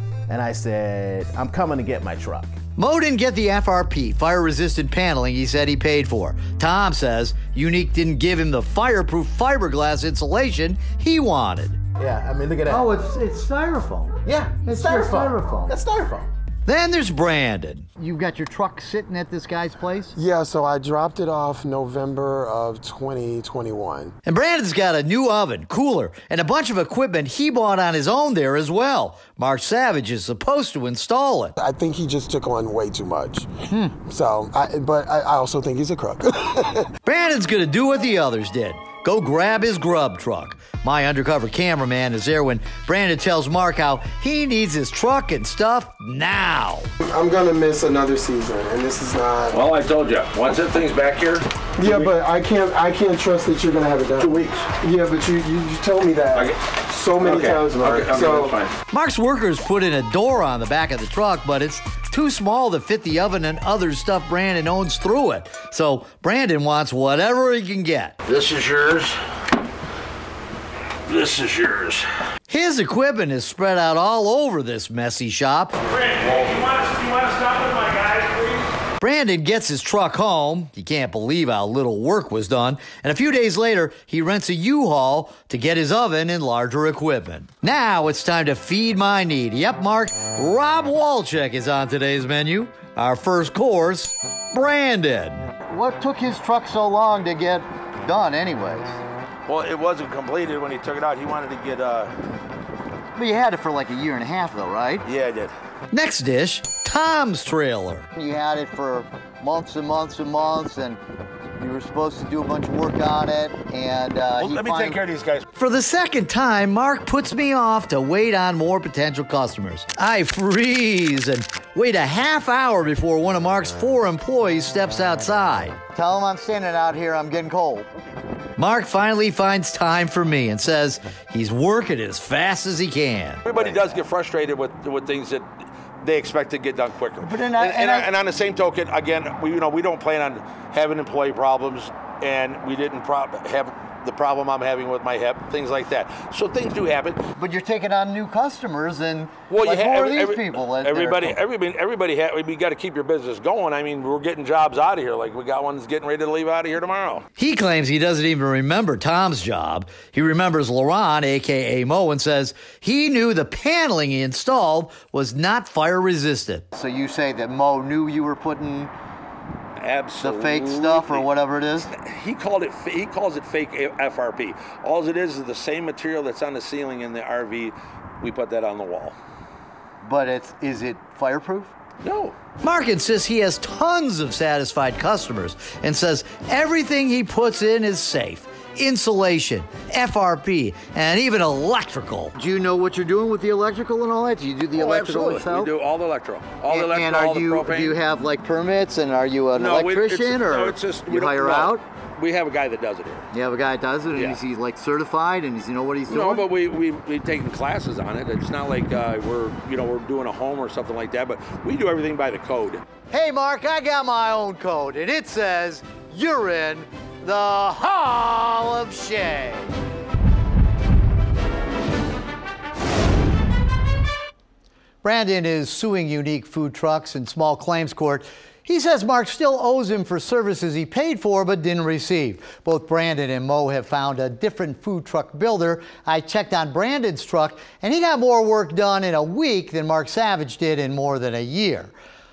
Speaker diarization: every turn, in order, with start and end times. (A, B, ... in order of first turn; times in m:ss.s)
0:00.3-0:02.6 A
0:02.8-0:11.8 B
0:12.0-0:12.9 A
0:12.7-0:15.8 B
0:14.2-0:16.3 A
0:16.7-0:20.2 B
0:20.2-0:24.1 C
0:24.2-0:31.6 B
0:31.6-0:33.5 C
0:33.7-0:34.0 B
0:34.0-0:36.9 C
0:37.0-0:46.9 B
0:47.0-0:49.6 C
0:49.5-0:52.1 D
0:51.8-0:58.5 C
0:54.2-0:54.7 D
0:57.2-0:58.7 D
0:58.9-1:08.2 B
1:08.2-1:09.2 D
1:11.1-1:12.0 D
1:12.5-1:15.8 B
1:15.8-1:18.7 D
1:19.0-1:39.0 B
1:39.5-1:42.1 D
1:43.2-1:45.0 B
1:45.0-1:45.5 D
1:45.9-1:51.0 B
1:51.6-1:55.0 B
1:54.4-1:55.4 D
1:55.5-2:07.9 B
2:08.6-2:14.0 B
2:13.4-2:15.5 D
2:16.0-2:27.2 D
2:17.2-2:18.1 B
2:27.4-2:31.4 B
2:29.5-2:37.2 D
2:37.4-2:48.9 B
2:49.8-2:51.3 D
2:50.2-2:51.9 B
2:51.8-2:59.2 D
3:00.0-3:01.7 B
3:02.0-3:02.4 D
3:02.6-3:15.7 B
3:14.7-3:18.0 D
3:16.7-3:21.8 B
3:19.5-3:23.3 D
3:23.3-3:26.5 B
3:24.1-3:24.4 D
3:26.1-3:32.8 D
3:33.1-3:39.7 B
3:45.0-4:01.9 B